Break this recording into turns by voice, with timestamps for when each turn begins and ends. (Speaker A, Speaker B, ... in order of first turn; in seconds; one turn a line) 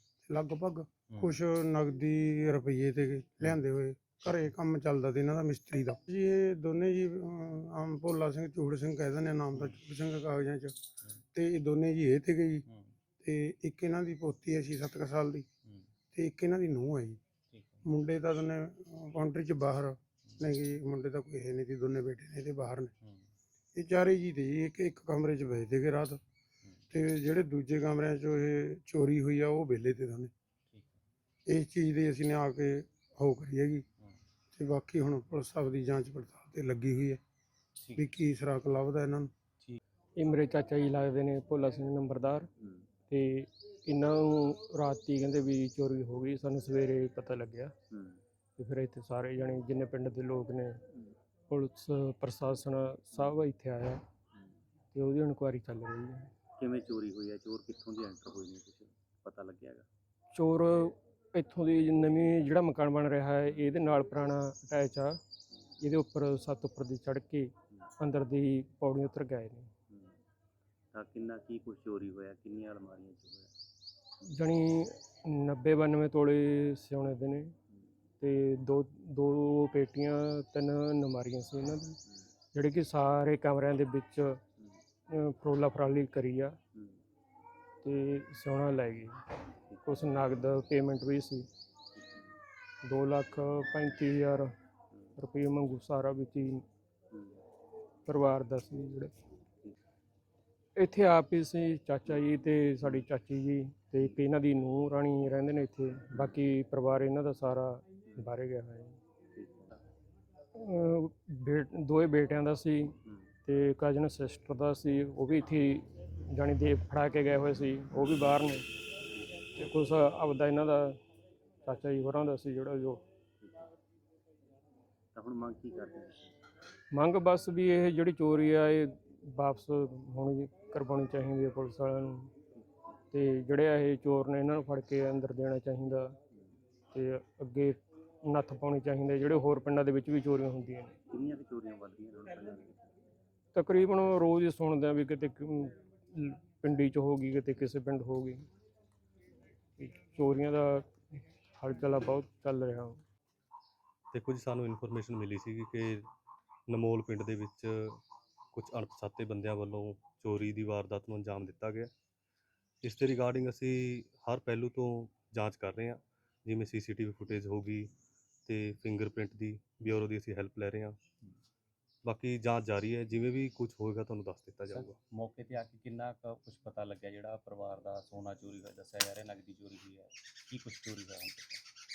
Speaker A: 0.3-10.7
Speaker B: 1.1-1.4
Speaker A: 11.3-12.7
Speaker A: 13.2-15.5
Speaker A: 16.1-17.2
Speaker B: 17.5-17.8
Speaker A: 17.9-22.9
Speaker A: 23.8-26.2
Speaker A: 26.9-30.3
Speaker B: 30.7-31.0
Speaker A: 31.5-33.9
Speaker A: 34.5-37.2
Speaker A: 38.0-39.3
Speaker C: 40.2-42.5
Speaker B: 42.6-42.9
Speaker C: 43.1-47.7
Speaker B: 47.9-48.2
Speaker C: 48.6-50.8
Speaker C: 51.5-54.0
Speaker C: 54.9-56.3
Speaker B: 56.6-59.9
Speaker C: 60.3-65.2
Speaker C: 65.8-69.7
Speaker B: 69.9-70.2
Speaker B: 70.9-73.5
Speaker C: 74.3-77.5
Speaker C: 78.2-82.0
Speaker C: 82.5-84.4
Speaker C: 85.1-86.6
Speaker B: 86.7-87.0
Speaker C: 87.8-89.2
Speaker C: 89.8-91.5
Speaker B: 92.0-92.4
Speaker C: 92.8-94.5
Speaker C: 95.2-96.6
Speaker B: 97.1-97.4
Speaker C: 98.1-99.1
Speaker C: 100.8-109.0
Speaker B: 109.3-109.8
Speaker C: 110.5-112.9
Speaker B: 113.0-113.3
Speaker C: 113.5-118.7
Speaker C: 119.6-121.0
Speaker C: 121.7-123.0
Speaker B: 123.4-123.7
Speaker B: 125.2-126.3
Speaker C: 126.9-132.3
Speaker C: 133.1-136.1
Speaker C: 136.9-141.0
Speaker B: 141.1-142.9
Speaker C: 143.5-148.5
Speaker C: 149.8-150.9
Speaker C: 151.6-153.0
Speaker D: 154.1-156.1
Speaker D: 156.7-158.0
Speaker D: 158.5-161.9
Speaker D: 162.8-167.9
Speaker D: 168.5-171.0
Speaker D: 172.1-175.0
Speaker B: 174.7-181.6